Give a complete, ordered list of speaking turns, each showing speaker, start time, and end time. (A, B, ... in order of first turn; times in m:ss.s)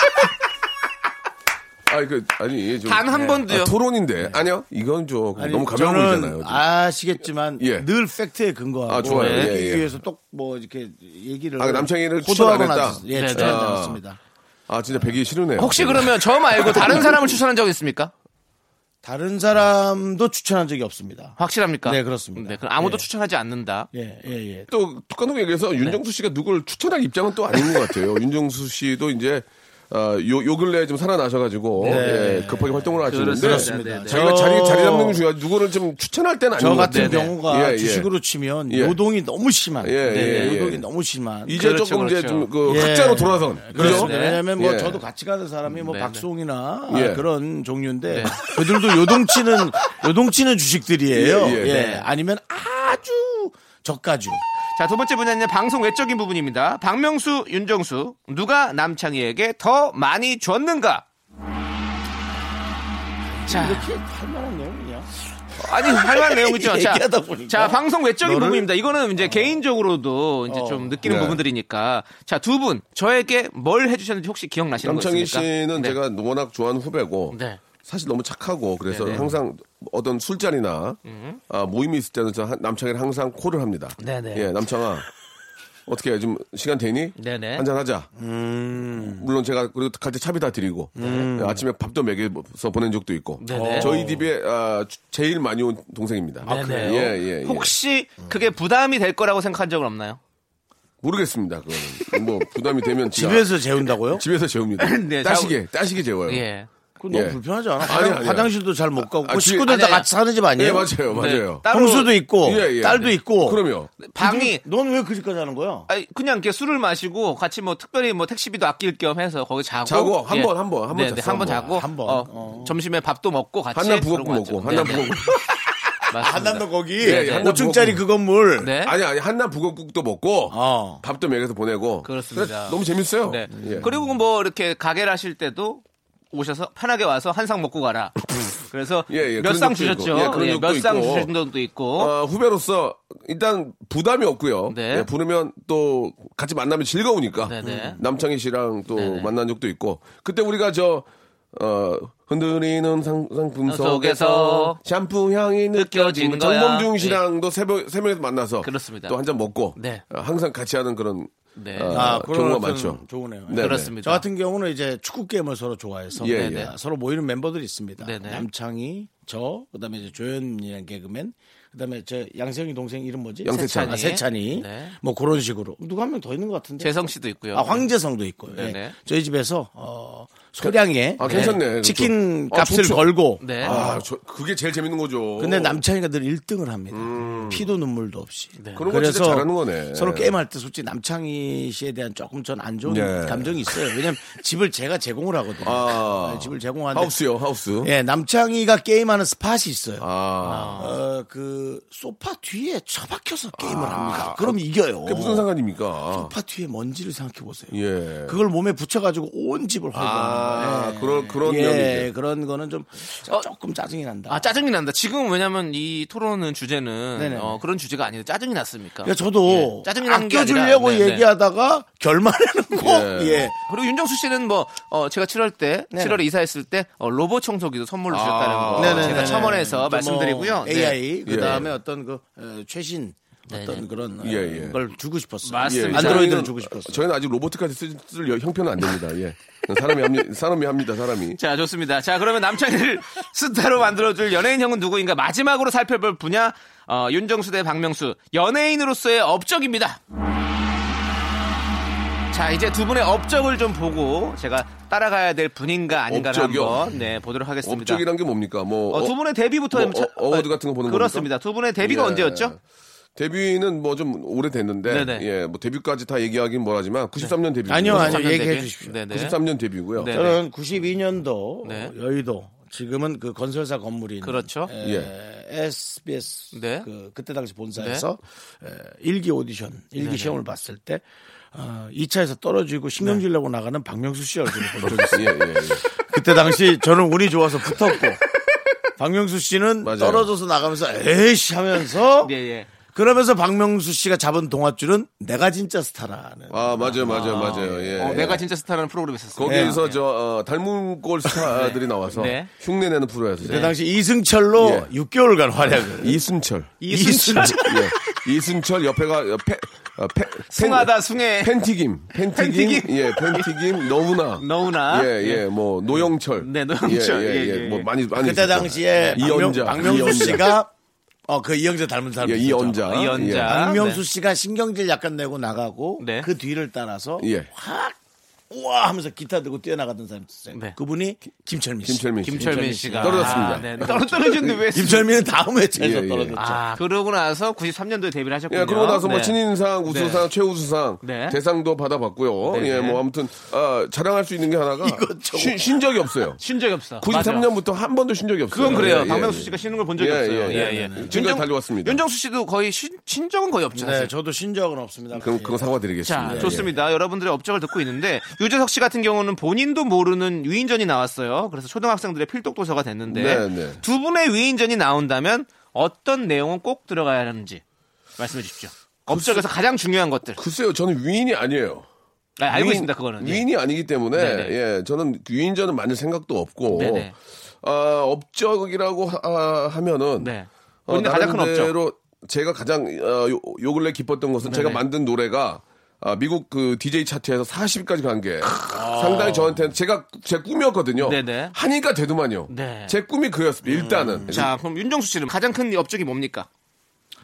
0:01.9-0:06.6 A
0:02.8-0:03.7 B
0:05.4-0:14.2 C
0:07.6-0:07.9 A
0:08.9-0:09.9 A
0:09.0-0:09.5 B
0:11.6-0:14.0 A
0:13.1-0:13.6 B
0:14.7-0:17.1 A
0:15.6-0:18.1 B
0:19.0-0:23.0 C
0:21.4-0:23.9 B
0:23.9-0:24.7 C
0:24.7-0:38.1 A
0:31.8-0:35.2 C
0:31.8-0:32.2 B
0:33.1-0:34.3 B
0:36.6-0:41.6 C
0:36.9-0:37.3 B
0:38.7-0:39.0 A
0:39.8-0:40.8 A
0:40.1-0:40.6 B
0:41.4-0:45.0 A
0:41.5-0:42.5 B
0:42.6-0:54.4 C
0:43.8-0:44.4 B
0:45.9-0:46.2 B
0:46.9-0:47.2 A
0:48.1-0:48.4 B
0:51.1-0:51.9 A
0:51.7-0:52.0 B
0:54.8-1:01.0 B
1:03.4-1:05.1 C
1:03.5-1:03.9 B
1:05.6-1:16.0 B
1:05.7-1:09.6 C
1:10.5-1:11.0 C
1:11.0-1:11.4 A
1:14.8-1:25.1 A
1:17.3-1:17.6 B
1:18.9-1:19.3 B
1:19.1-1:19.4 C
1:21.1-1:21.4 B
1:24.0-1:24.5 B
1:25.9-1:28.1 A
1:27.2-1:27.6 B
1:28.2-1:29.3 C
1:29.0-1:37.7 A
1:31.0-1:31.6 C
1:33.4-1:33.9 B
1:33.5-1:34.3 C
1:36.4-1:37.1 C
1:36.5-1:40.2 B
1:41.0-1:46.4 A
1:43.1-1:44.2 C
1:44.8-1:45.6 B
1:46.3-1:46.7 B
1:47.0-1:51.0 C
1:47.1-1:48.5 A
1:49.0-1:49.9 A
1:49.6-1:50.1 B
1:50.6-1:51.6 A
1:51.1-1:52.2 B
1:51.7-1:53.6 C
1:52.4-1:54.0 A
1:54.0-1:54.6 B
1:54.2-1:55.9 C
1:55.9-2:05.1 B
1:59.9-2:01.8 A
2:01.6-2:02.8 C
2:03.7-2:05.4 A
2:04.7-2:05.0 C
2:06.1-2:07.5 B
2:06.2-2:08.7 C
2:07.0-2:08.0 A
2:08.6-2:09.0 B
2:08.8-2:13.9 A
2:10.5-2:11.0 C
2:12.0-2:22.1 B
2:13.6-2:13.9 C
2:19.1-2:21.3 A
2:22.0-2:43.9 A
2:24.7-2:25.1 B
2:27.4-2:28.0 B
2:27.6-2:28.0 C
2:28.9-2:29.3 B
2:33.7-2:34.8 B
2:35.7-2:37.2 B
2:38.6-2:39.2 B
2:39.8-2:40.0 B
2:41.6-2:42.0 B
2:41.9-2:57.0 C
2:43.6-2:44.2 B
2:46.2-2:46.7 A
2:46.3-2:46.7 B
2:48.0-2:48.5 B
2:53.4-2:54.0 A
2:53.5-2:55.0 B
2:56.8-2:57.9 B
2:57.5-3:04.0 C
2:58.5-2:59.0 B
3:00.6-3:05.8 A
3:01.2-3:01.6 B
3:03.4-3:03.8 B
3:05.4-3:17.2 C
3:06.9-3:07.7 A
3:08.6-3:08.8 B
3:08.8-3:10.4 A
3:12.8-3:13.8 A
3:15.6-3:17.9 A
3:17.8-3:20.1 C
3:20.0-3:20.8 A
3:20.4-3:21.0 B
3:20.8-3:25.5 C
3:23.6-3:26.3 A
3:26.1-3:34.5 C
3:27.7-3:28.4 A
3:29.9-3:32.1 A
3:34.3-3:41.2 B
3:37.2-3:37.6 C
3:39.0-3:43.6 C
3:42.8-3:43.5 A
3:43.7-3:51.0 B
3:45.9-3:46.2 C
3:48.1-3:49.6 A
3:48.8-3:57.1 C
3:51.3-3:51.7 A
3:53.5-3:53.8 B
3:54.2-3:54.8 A
3:55.4-3:56.4 B
3:55.7-4:01.4 A
4:01.4-4:10.0 B
4:12.3-4:18.0 B
4:16.1-4:16.9 A
4:17.6-4:19.2 A
4:18.9-4:22.6 B
4:19.7-4:22.6 A
4:23.2-4:28.2 A
4:24.9-4:25.3 B
4:27.2-4:29.4 B
4:27.7-4:29.0 C
4:29.1-4:30.2 A
4:30.0-4:30.4 B
4:30.1-4:48.2 C
4:31.6-4:31.9 B
4:34.2-4:34.7 B
4:34.8-4:35.1 A
4:36.5-4:36.9 B
4:37.8-4:38.0 B
4:40.0-4:40.4 B
4:44.8-4:45.8 A
4:49.0-4:52.3 C
4:49.8-4:50.3 A
4:52.2-4:52.7 B
4:52.9-4:58.4 C
4:56.5-4:58.4 A
4:57.0-5:00.0 B
4:59.4-5:03.7 A
4:59.5-4:59.8 C
5:01.4-5:02.5 B
5:03.4-5:06.2 C
5:04.6-5:04.9 A
5:05.7-5:20.6 A
5:06.8-5:08.0 B
5:06.9-5:07.8 C
5:10.5-5:11.5 B
5:12.2-5:13.6 B
5:14.4-5:15.4 B
5:16.0-5:17.9 B
5:18.2-5:20.7 C
5:19.0-5:20.3 B
5:21.3-5:28.0 C
5:22.2-5:23.6 A
5:22.9-5:24.0 B
5:26.0-5:26.3 B
5:27.2-5:27.5 A
5:28.5-5:36.6 C
5:31.8-5:34.6 A
5:32.2-5:35.0 B
5:35.8-5:36.4 A
5:36.4-5:39.4 B
5:38.5-5:46.4 A
5:39.9-5:40.3 B
5:41.0-5:41.4 B
5:42.5-5:43.0 B
5:44.8-5:45.9 C
5:46.4-5:47.5 B
5:47.0-5:52.0 A
5:48.5-5:54.1 B
5:48.6-5:49.1 C
5:50.5-5:51.2 C
5:53.7-5:55.7 C
5:55.1-5:56.7 A
5:56.0-6:07.6 B
5:56.2-5:56.7 C
6:03.1-6:03.8 A
6:08.2-6:10.4 B
6:09.1-6:09.5 A
6:10.4-6:11.9 A
6:12.4-6:13.5 B
6:12.5-6:20.3 A
6:14.1-6:14.6 B
6:16.7-6:17.1 B
6:20.2-6:21.7 B
6:20.9-6:34.5 A
6:24.4-6:24.8 B
6:28.6-6:29.6 C
6:31.0-6:31.6 B
6:32.5-6:33.0 B
6:33.6-6:34.4 C
6:34.3-6:36.5 B